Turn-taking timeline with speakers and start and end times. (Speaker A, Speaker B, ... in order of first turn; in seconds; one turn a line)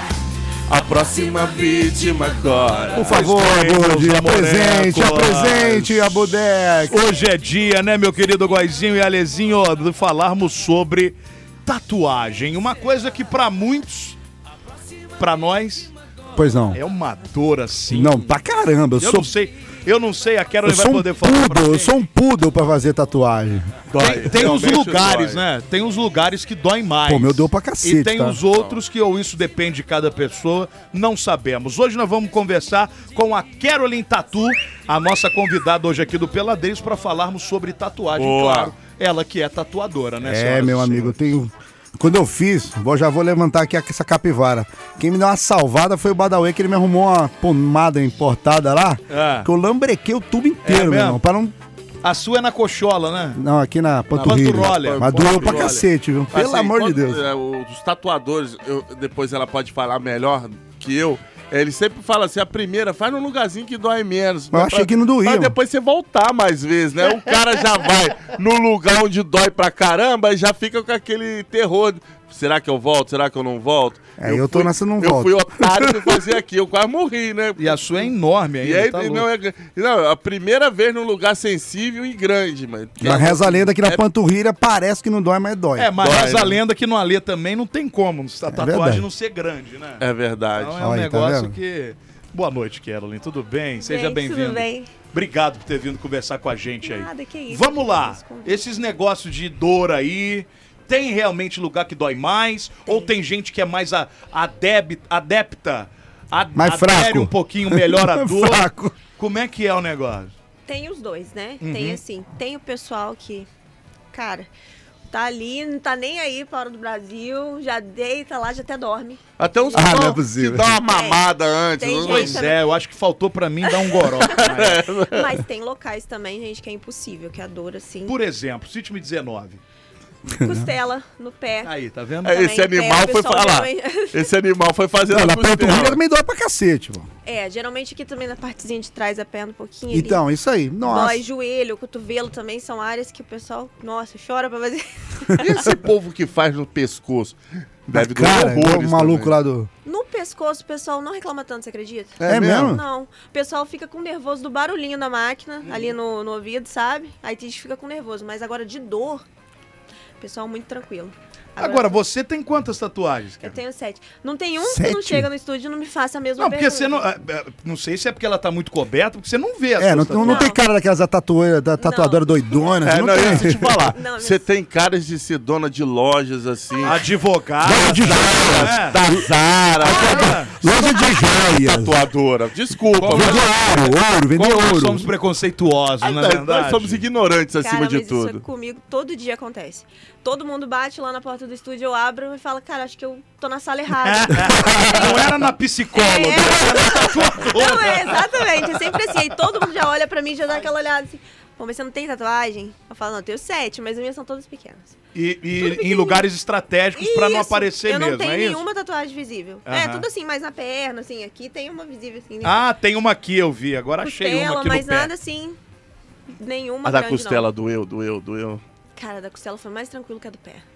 Speaker A: 0.7-3.3
Speaker B: 2.9-7.0
Speaker C: 3.0-6.3
Speaker C: 6.9-14.2
Speaker C: 15.2-15.9
Speaker B: 16.3-16.8
Speaker C: 16.7-18.3
Speaker B: 17.9-19.3
Speaker C: 19.0-22.0
Speaker B: 20.6-23.9
Speaker A: 23.9-25.4
Speaker C: 24.0-41.1
Speaker B: 27.1-28.4
Speaker A: 38.1-38.7
Speaker B: 40.2-51.5
Speaker C: 49.1-49.5
Speaker C: 50.6-51.2
Speaker C: 52.0-53.4
Speaker B: 53.3-57.2
Speaker A: 54.1-77.8
Speaker C: 54.2-55.9
Speaker B: 64.5-65.5
Speaker B: 74.2-76.3
Speaker C: 77.6-79.3
Speaker A: 78.6-84.0
Speaker B: 83.0-85.9
Speaker C: 85.8-90.0
Speaker A: 86.0-86.6
Speaker B: 88.5-89.0
Speaker A: 90.0-90.8
Speaker C: 90.5-110.3
Speaker B: 90.8-91.5
Speaker D: 93.8-94.9
Speaker D: 96.8-98.6
Speaker B: 106.5-109.0
Speaker D: 110.7-113.5
Speaker C: 111.6-112.0
Speaker D: 114.1-114.5
Speaker D: 115.1-120.0
Speaker A: 119.4-122.4
Speaker B: 119.7-120.8
Speaker D: 120.9-122.6
Speaker C: 122.0-124.9
Speaker D: 123.8-128.2
Speaker A: 124.2-125.4
Speaker C: 128.1-129.6
Speaker B: 130.3-130.7
Speaker D: 130.3-131.7
Speaker C: 131.6-132.4
Speaker A: 132.2-136.0
Speaker D: 132.2-134.3
Speaker B: 135.1-137.1
Speaker D: 137.2-140.2
Speaker B: 139.9-141.2
Speaker D: 140.8-145.7
Speaker A: 145.4-149.3
Speaker B: 147.9-149.7
Speaker D: 149.8-159.2
Speaker A: 152.2-152.8
Speaker B: 152.2-152.8
Speaker C: 155.6-155.9
Speaker D: 160.2-162.0
Speaker C: 161.6-163.6
Speaker D: 163.4-167.0
Speaker B: 164.6-165.3
Speaker C: 166.4-170.5
Speaker B: 169.8-173.9
Speaker D: 170.2-170.6
Speaker D: 171.8-172.2
Speaker A: 172.8-177.1
Speaker D: 173.9-174.5
Speaker C: 176.8-179.0
Speaker B: 177.6-179.3
Speaker A: 177.6-180.4
Speaker C: 179.8-180.5
Speaker B: 179.9-182.0
Speaker D: 179.9-181.4
Speaker A: 181.5-183.9
Speaker C: 183.0-187.0
Speaker B: 183.1-185.1
Speaker A: 186.0-188.4
Speaker D: 187.6-195.3
Speaker C: 194.0-199.4
Speaker D: 195.9-205.0
Speaker C: 205.1-208.6
Speaker D: 205.6-206.2
Speaker D: 206.9-212.6
Speaker C: 209.7-210.1
Speaker C: 212.4-215.1
Speaker D: 214.0-215.6
Speaker D: 216.4-217.5
Speaker A: 216.8-218.6
Speaker D: 218.9-220.6